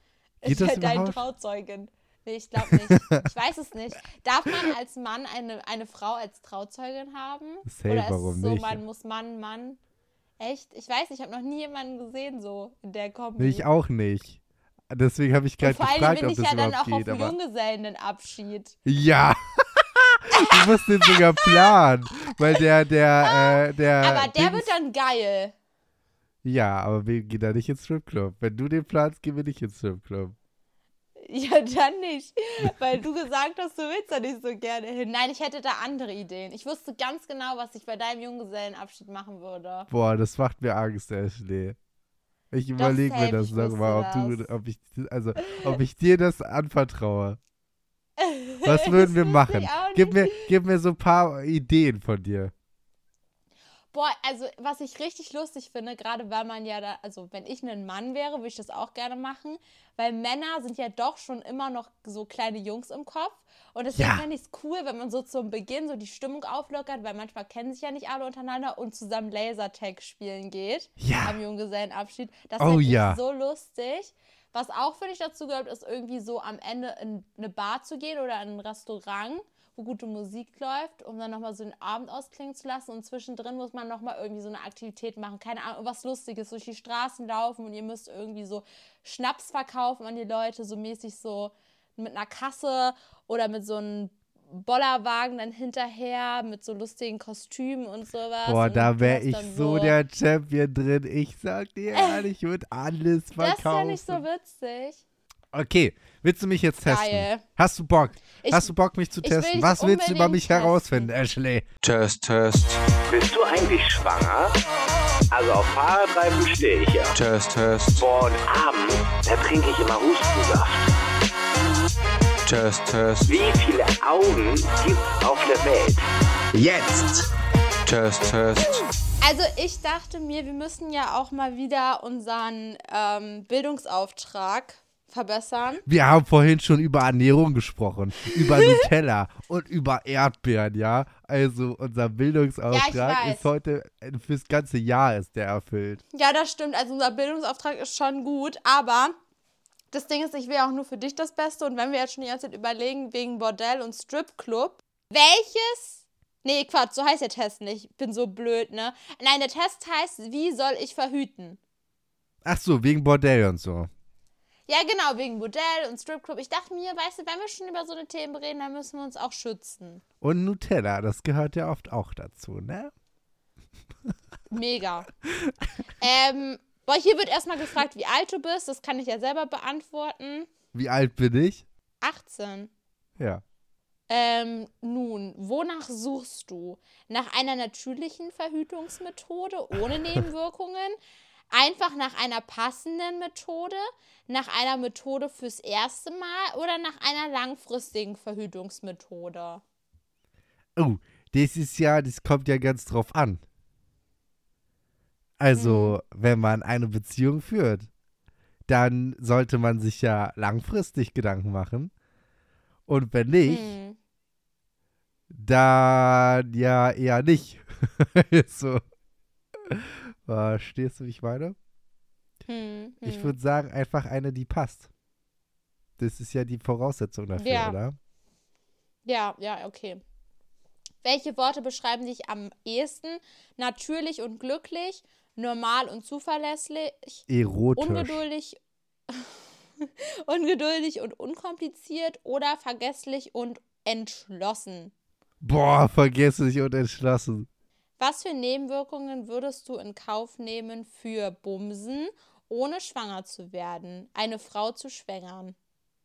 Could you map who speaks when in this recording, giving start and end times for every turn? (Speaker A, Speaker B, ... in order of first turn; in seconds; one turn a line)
Speaker A: 0.4-9.8
Speaker B: 0.4-1.2
Speaker B: 2.6-3.1
Speaker B: 7.6-8.8
Speaker A: 10.4-13.6
Speaker B: 13.4-17.3
Speaker A: 15.6-18.8
Speaker B: 18.8-24.7
Speaker A: 20.3-21.5
Speaker A: 23.2-25.5
Speaker B: 26.4-30.3
Speaker A: 31.2-39.9
Speaker B: 39.9-41.8
Speaker B: 42.5-47.4
Speaker A: 42.8-44.5
Speaker A: 45.4-45.7
Speaker A: 48.2-50.5
Speaker B: 48.6-52.5
Speaker A: 53.9-100.0
Speaker B: 64.0-64.2
Speaker B: 71.0-71.4
Speaker B: 72.6-73.2
Speaker B: 98.4-104.2
Speaker A: 101.9-102.2
Speaker A: 103.4-105.0
Speaker B: 105.5-111.7
Speaker A: 106.8-107.4
Speaker A: 108.4-111.1
Speaker C: 111.8-112.8
Speaker D: 113.1-114.5
Speaker D: 115.3-117.1
Speaker C: 117.1-118.0
Speaker D: 118.0-120.9
Speaker C: 122.4-123.3
Speaker D: 123.3-126.0
Speaker D: 126.6-127.2
Speaker C: 127.8-128.8
Speaker A: 129.2-135.8
Speaker B: 135.8-146.0
Speaker A: 138.5-138.8
Speaker A: 142.7-143.5
Speaker A: 146.1-149.1
Speaker A: 149.9-161.6
Speaker B: 162.4-163.9
Speaker A: 164.7-170.0
Speaker B: 170.2-172.9
Speaker A: 174.5-175.1
Speaker B: 175.2-175.5
Speaker A: 176.0-180.5
Speaker B: 180.7-181.7
Speaker A: 182.0-182.7
Speaker B: 183.2-183.4
Speaker A: 184.1-191.0
Speaker A: 191.5-199.6
Speaker B: 200.8-203.4
Speaker B: 205.4-207.9
Speaker A: 205.6-205.9
Speaker B: 208.7-211.9
Speaker B: 212.9-213.8
Speaker A: 213.5-214.0
Speaker B: 215.3-218.8
Speaker B: 219.6-221.6
Speaker A: 222.5-223.3
Speaker B: 223.0-224.9
Speaker B: 226.0-228.0
Speaker A: 227.4-227.8
Speaker A: 229.0-230.0
Speaker A: 231.0-237.2
Speaker B: 237.3-238.2
Speaker A: 237.8-244.9
Speaker B: 245.4-247.5
Speaker A: 248.0-255.6